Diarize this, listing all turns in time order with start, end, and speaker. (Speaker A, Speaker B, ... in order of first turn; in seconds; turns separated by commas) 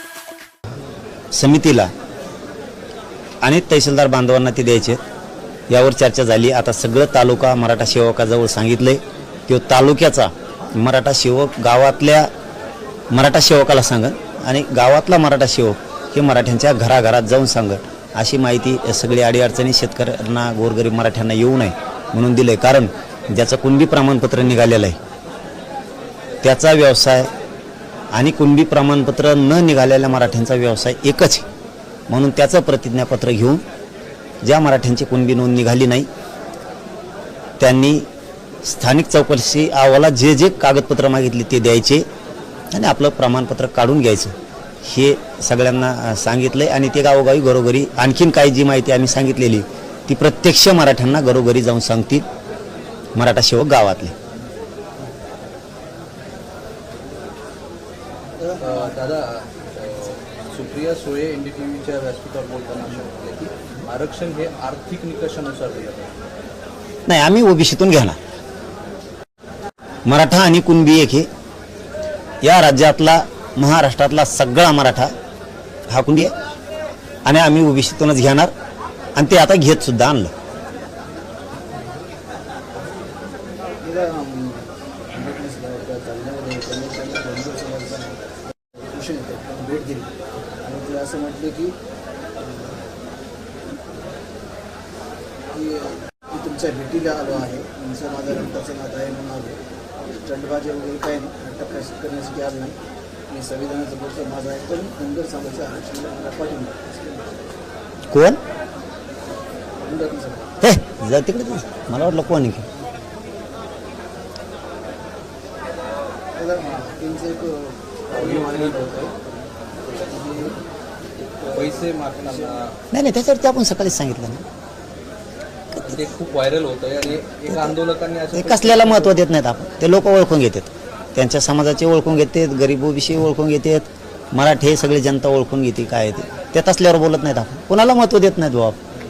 Speaker A: 1.3-1.9, Speaker A: 3.4-5.0, Speaker A: 5.7-12.3, Speaker A: 13.1-25.0, Speaker A: 26.4-27.3, Speaker A: 28.1-31.4, Speaker A: 32.1-33.6, Speaker A: 34.4-36.1, Speaker A: 37.6-38.1, Speaker A: 38.6-42.0, Speaker A: 42.7-52.2, Speaker A: 53.1-54.1, Speaker B: 58.4-58.8, Speaker C: 58.6-66.1, Speaker A: 67.1-68.2, Speaker A: 70.0-71.3, Speaker A: 72.4-75.1, Speaker A: 75.9-76.3, Speaker A: 77.2-78.5, Speaker A: 79.2-80.3, Speaker B: 83.8-90.1, Speaker B: 90.6-91.8, Speaker B: 92.4-92.8, Speaker B: 95.5-99.6, Speaker B: 100.1-102.8, Speaker B: 103.3-107.3, Speaker A: 108.1-108.4, Speaker B: 109.8-110.5, Speaker A: 110.6-112.7, Speaker B: 116.3-119.2, Speaker C: 118.1-118.8, Speaker B: 119.9-120.6, Speaker B: 121.4-121.7, Speaker C: 121.5-122.8, Speaker A: 122.9-124.4, Speaker C: 125.8-129.2, Speaker A: 128.3-138.8